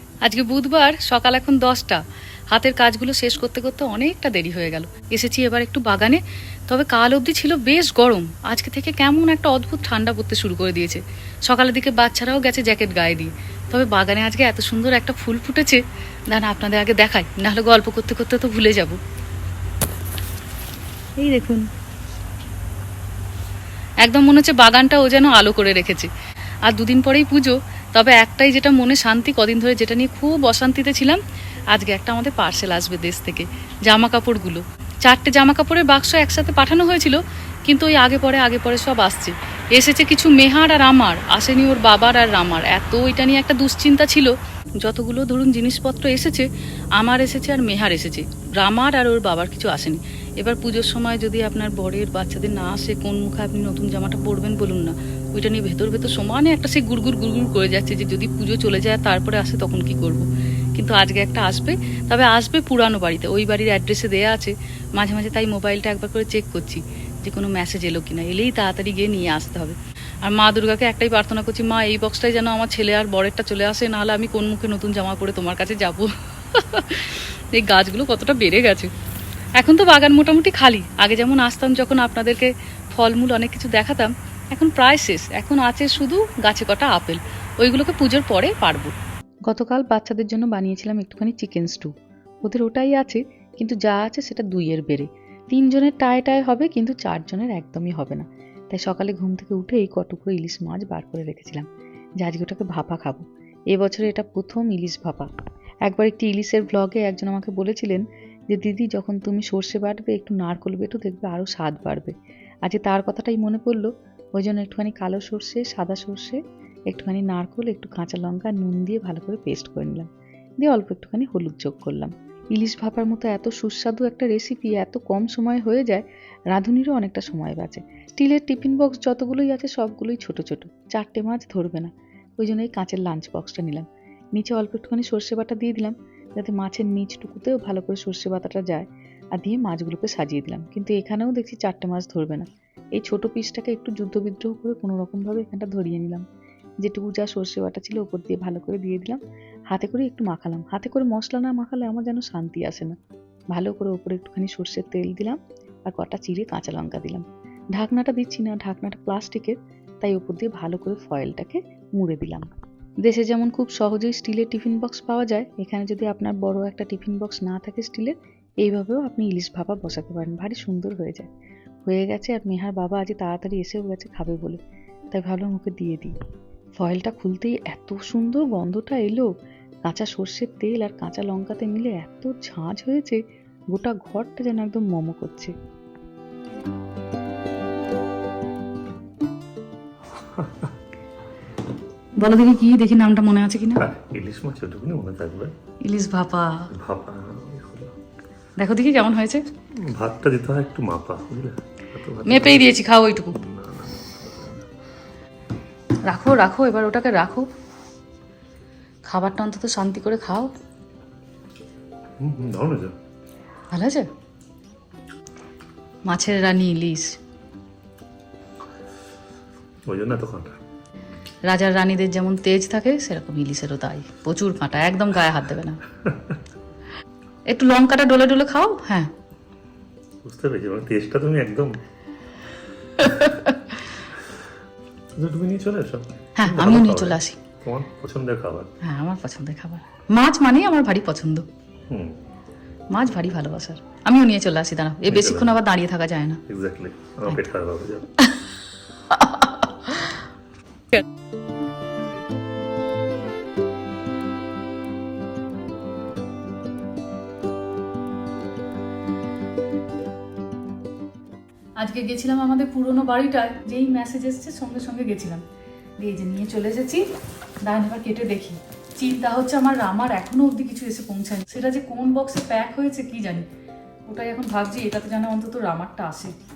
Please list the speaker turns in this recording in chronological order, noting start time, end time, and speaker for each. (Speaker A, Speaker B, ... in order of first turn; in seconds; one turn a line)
Speaker A: 0.2-19.0
Speaker A: 21.2-21.7
Speaker A: 24.0-26.1
Speaker A: 26.7-78.9
Speaker A: 79.6-89.0
Speaker B: 89.5-91.9
Speaker B: 92.4-101.7
Speaker B: 102.2-105.3
Speaker B: 105.9-146.2
Speaker B: 146.8-152.9
Speaker B: 153.5-162.5
Speaker B: 163.0-171.3
Speaker B: 171.8-174.6
Speaker B: 175.1-176.1
Speaker B: 176.8-179.3
Speaker B: 179.8-185.5
Speaker C: 190.3-190.7
Speaker A: 192.1-193.9
Speaker C: 193.8-195.5
Speaker A: 195.8-196.7
Speaker C: 196.7-197.9
Speaker A: 198.6-199.4
Speaker C: 199.8-202.8
Speaker A: 202.2-203.3
Speaker C: 203.3-204.7
Speaker A: 206.1-207.5
Speaker A: 209.1-210.5
Speaker C: 212.2-212.9
Speaker A: 213.7-214.1
Speaker A: 216.1-217.2
Speaker C: 219.9-220.6
Speaker A: 221.5-225.8
Speaker A: 227.5-229.1
Speaker C: 230.2-231.7
Speaker C: 233.0-233.3
Speaker A: 233.2-233.5
Speaker C: 235.2-238.7
Speaker A: 236.4-237.4
Speaker A: 238.8-241.5
Speaker C: 241.9-242.2
Speaker A: 242.9-246.4
Speaker C: 245.1-245.6
Speaker C: 246.5-248.1
Speaker A: 249.1-249.5
Speaker A: 261.8-265.4
Speaker A: 266.0-267.1
Speaker A: 267.6-273.5
Speaker A: 274.1-276.4